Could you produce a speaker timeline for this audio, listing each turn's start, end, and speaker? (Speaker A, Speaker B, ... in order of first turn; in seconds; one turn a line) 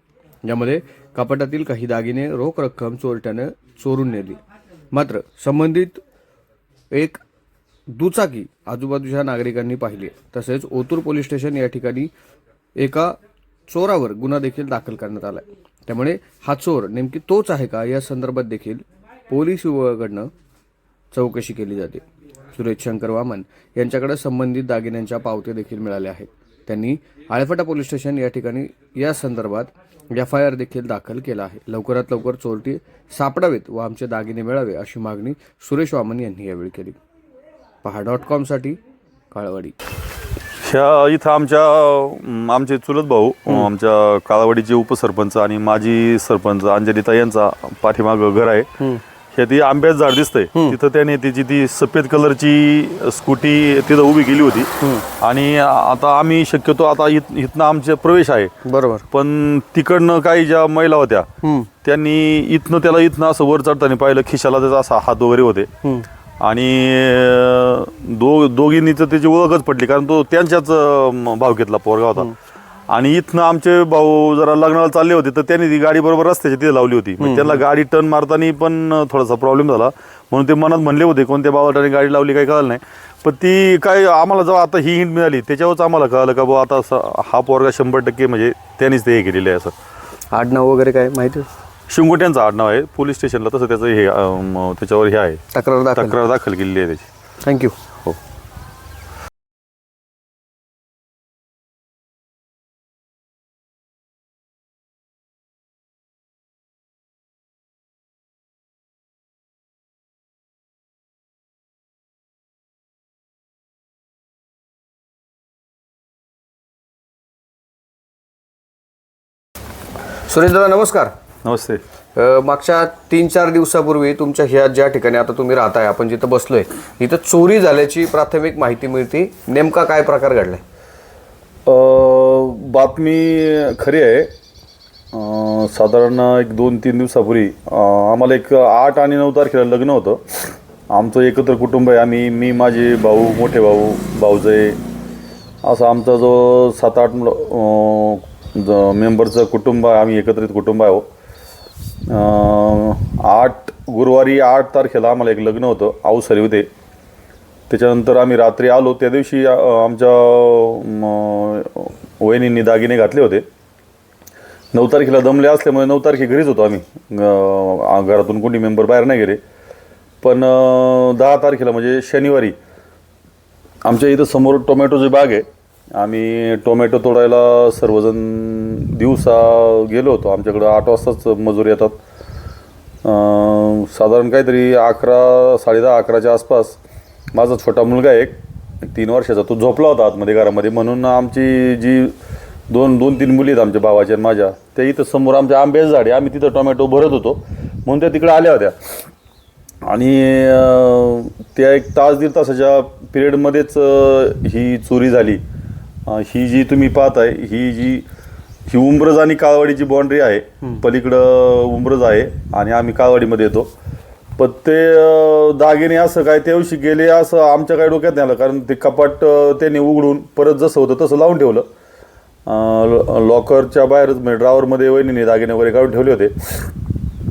Speaker A: 0.4-4.4
Speaker A: 4.9-6.0
Speaker A: 6.9-7.2
Speaker A: 7.9-12.1
Speaker A: 12.8-13.2
Speaker A: 13.7-20.3
Speaker A: 21.1-22.0
Speaker A: 22.5-37.0
Speaker A: 37.8-38.8
Speaker A: 39.3-39.7
Speaker B: 40.6-48.7
Speaker B: 49.3-58.5
Speaker A: 58.6-59.0
Speaker B: 59.1-61.3
Speaker A: 61.4-61.7
Speaker B: 61.8-65.7
Speaker B: 66.4-72.3
Speaker B: 72.9-89.7
Speaker A: 77.2-77.6
Speaker A: 90.3-91.5
Speaker B: 91.9-95.4
Speaker A: 95.5-96.2
Speaker B: 96.0-97.1
Speaker A: 97.4-97.7
Speaker A: 120.3-121.1
Speaker B: 121.4-121.8
Speaker A: 122.2-130.6
Speaker B: 131.7-134.3
Speaker B: 135.1-144.8
Speaker B: 145.6-151.0
Speaker B: 152.1-156.7
Speaker B: 157.7-163.4
Speaker B: 164.7-169.4
Speaker B: 170.2-172.5
Speaker B: 173.8-175.4
Speaker B: 176.0-181.9
Speaker B: 183.0-186.8
Speaker B: 187.3-192.1
Speaker B: 192.7-198.8
Speaker B: 199.9-205.4
Speaker B: 206.1-208.0
Speaker B: 208.7-213.7
Speaker B: 214.4-221.7
Speaker B: 222.5-226.3